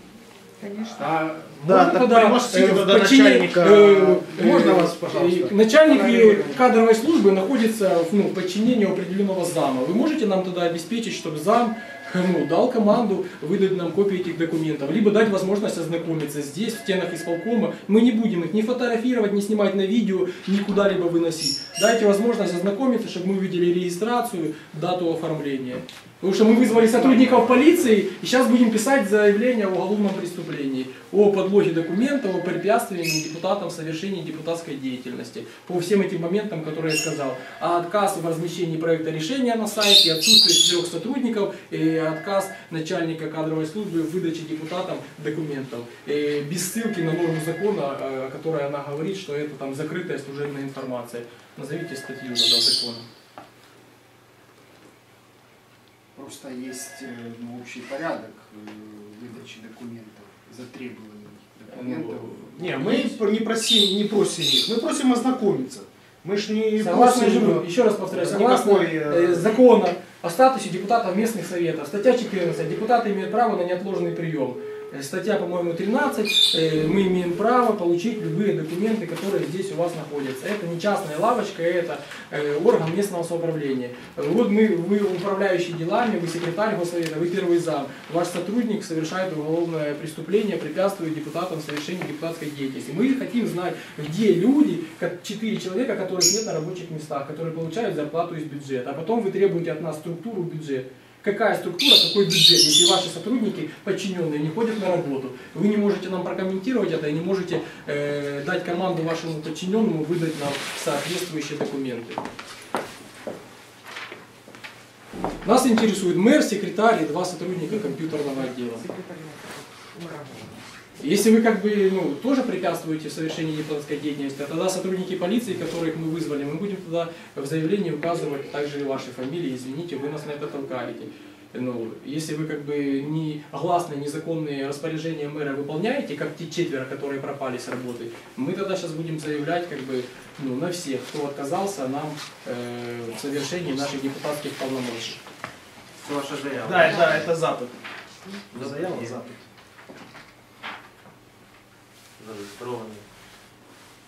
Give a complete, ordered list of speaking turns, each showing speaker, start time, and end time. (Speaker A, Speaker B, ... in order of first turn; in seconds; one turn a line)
Speaker A: 0.6-1.0
Speaker B: 0.9-53.1
Speaker C: 1.6-5.5
Speaker A: 5.9-6.4
Speaker C: 26.7-27.6
Speaker D: 56.1-62.4
Speaker B: 61.7-63.1
Speaker C: 62.6-69.5
Speaker B: 66.8-112.2
Speaker B: 115.4-118.8
Speaker A: 117.7-120.6
Speaker B: 121.0-145.2
Speaker E: 146.0-147.3
Speaker C: 146.6-147.8
Speaker E: 148.5-149.2
Speaker C: 148.5-149.4
Speaker E: 152.2-153.0